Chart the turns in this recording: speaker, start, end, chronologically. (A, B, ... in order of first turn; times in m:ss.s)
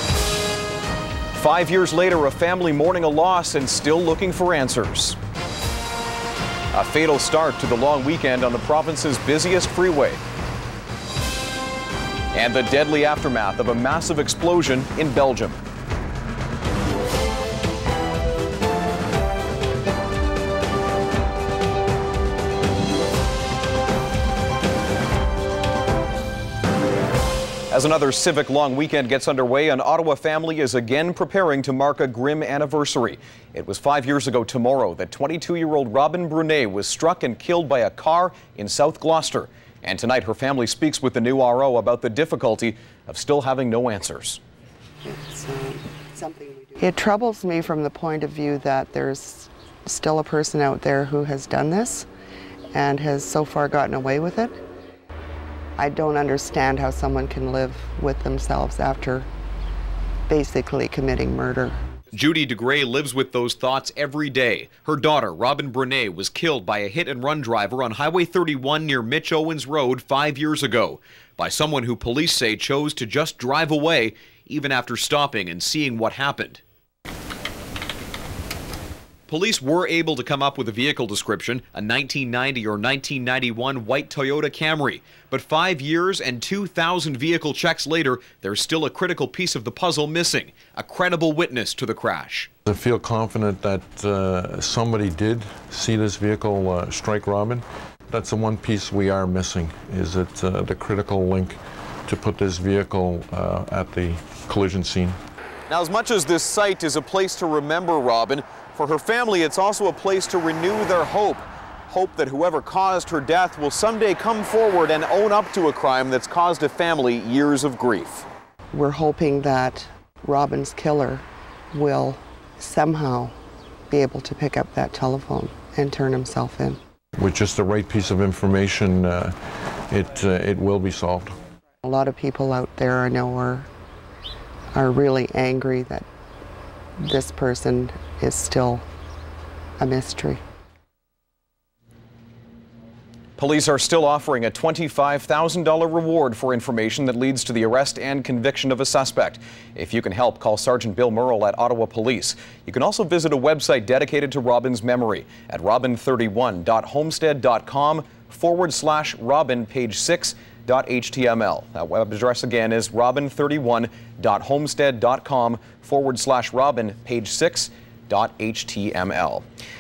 0:01.3-0:05.2 A
0:06.7-0:10.2 A
0:12.3-0:15.6 A
0:27.7-0:44.4 A
0:45.0-0:52.1 B
0:52.7-0:54.6 B
0:55.8-0:59.3 B
1:00.3-1:01.8 B
1:02.1-1:16.6 A
1:19.3-1:32.5 A
1:32.7-1:45.2 C
1:45.7-1:58.3 A
1:58.7-2:03.4 B
2:03.9-2:06.8 B
2:07.2-2:09.4 C
2:09.9-2:11.4 C
2:11.8-2:13.7 B
2:14.7-2:16.1 B
2:17.0-2:18.8 B
2:19.8-2:20.4 B
2:23.4-2:49.4 A